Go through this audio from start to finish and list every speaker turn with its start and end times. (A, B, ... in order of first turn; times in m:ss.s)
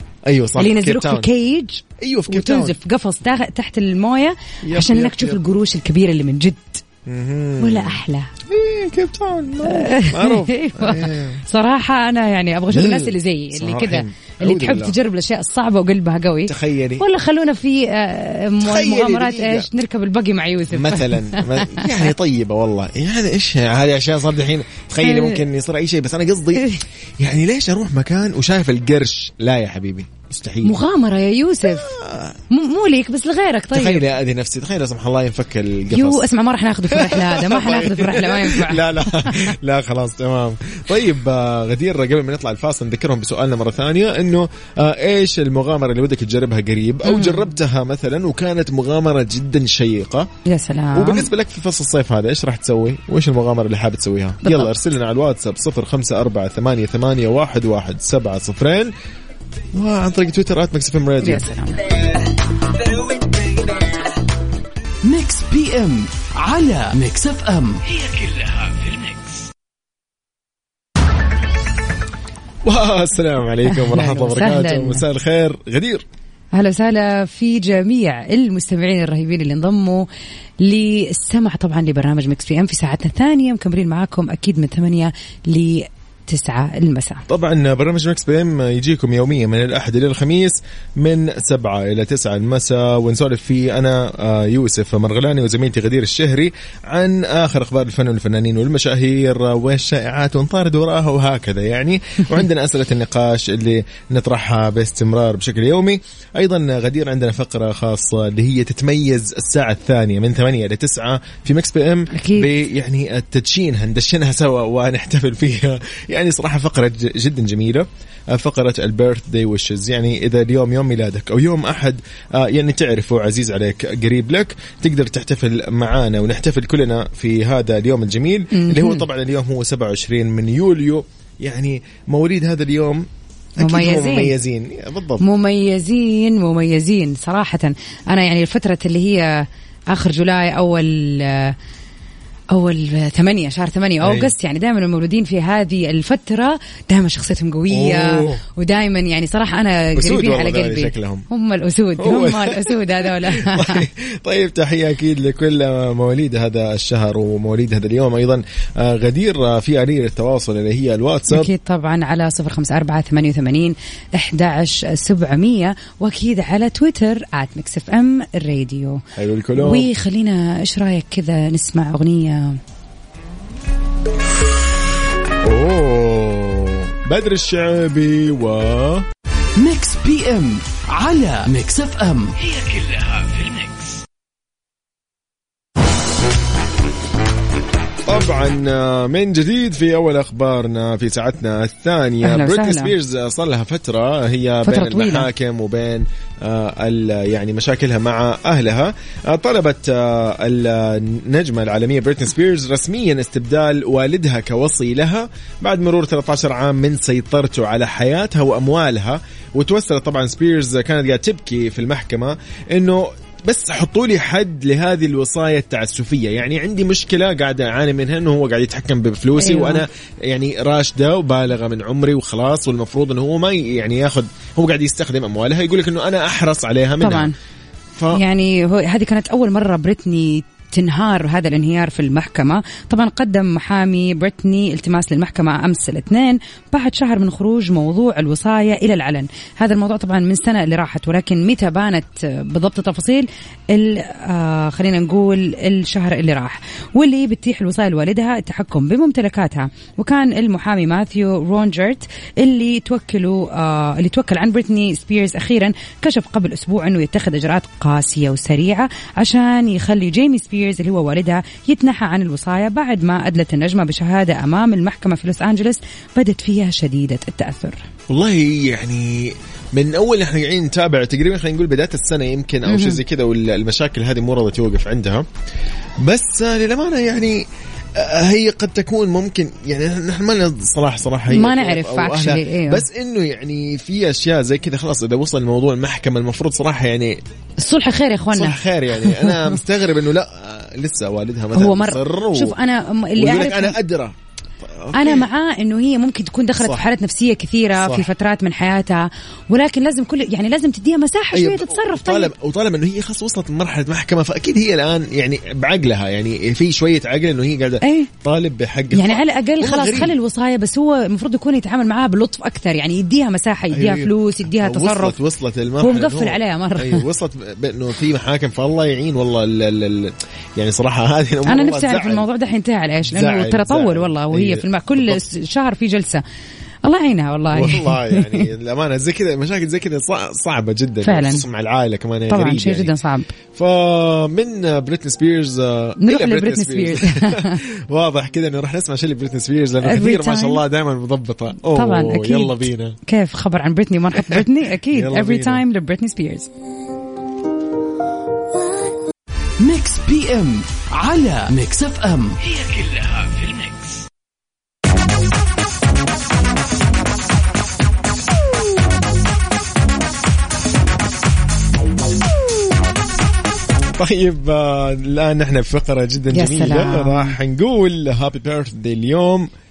0:00.2-0:01.3 A
0:00.6-0:06.8 B
0:02.0-0:02.8 A
0:04.6-0:05.4 A
0:07.0-0:11.4 A
0:07.6-0:08.3 B
0:09.6-0:22.1 B
0:12.7-0:15.0 A
0:16.4-0:17.0 A
0:18.6-0:19.7 A
0:20.7-0:30.8 A
0:25.0-0:25.4 B
0:26.6-0:26.8 B
0:30.6-0:31.9 B
0:31.6-0:32.4 A
0:32.5-0:34.0 B
0:33.7-0:36.2 A
0:35.9-0:39.5 B
0:36.9-0:50.3 A
0:47.0-0:47.5 B
0:50.4-0:51.3 B
0:50.9-0:58.9 A
0:54.4-0:54.7 B
0:59.7-1:01.4 A
1:01.2-1:01.9 B
1:05.0-1:09.0 C
1:12.6-1:16.0 A
1:13.7-1:15.0 B
1:16.5-1:20.1 B
1:20.6-1:27.2 B
1:27.3-2:15.2 A
1:52.1-1:52.5 B
2:08.5-2:09.0 B
2:13.6-2:14.3 B
2:15.2-2:21.5 B
2:22.5-2:33.8 B
2:24.0-2:24.3 A
2:27.7-2:28.4 A
2:30.0-2:31.3 A
2:32.0-2:41.5 A
2:41.3-2:49.0 B
2:49.2-2:49.9 A
2:49.5-2:52.6 B
2:55.4-2:59.0 A
2:59.6-3:03.8 C
3:08.0-3:47.3 A
3:12.2-3:12.9 B
3:14.6-3:15.3 B
3:39.4-3:39.8 B
3:47.0-3:47.3 B
3:48.0-3:48.2 A
3:48.1-4:27.8 B
4:28.1-4:35.2 A
4:32.6-4:33.0 B
4:36.0-4:37.4 A
4:38.0-4:47.2 A
4:41.3-4:42.8 B
4:47.6-4:49.6 B
4:48.3-4:52.6 A
4:51.5-4:53.8 B
4:53.2-4:55.3 A
4:54.9-5:02.3 B
4:57.8-4:58.1 A
5:01.3-5:10.1 A
5:07.8-5:08.1 B
5:08.9-5:15.2 B
5:13.7-5:22.2 A
5:15.8-5:17.0 B
5:21.4-5:26.2 B
5:23.1-5:25.2 A
5:26.8-5:28.5 B
5:27.5-5:32.9 A
5:31.0-5:31.4 B
5:32.3-5:33.3 B
5:33.5-5:43.0 A
5:36.0-5:37.6 B
5:39.8-5:40.6 B
5:41.7-5:46.5 B
5:44.2-5:45.6 A
5:49.6-5:53.7 C
6:03.9-6:09.5 A
6:06.3-6:07.4 B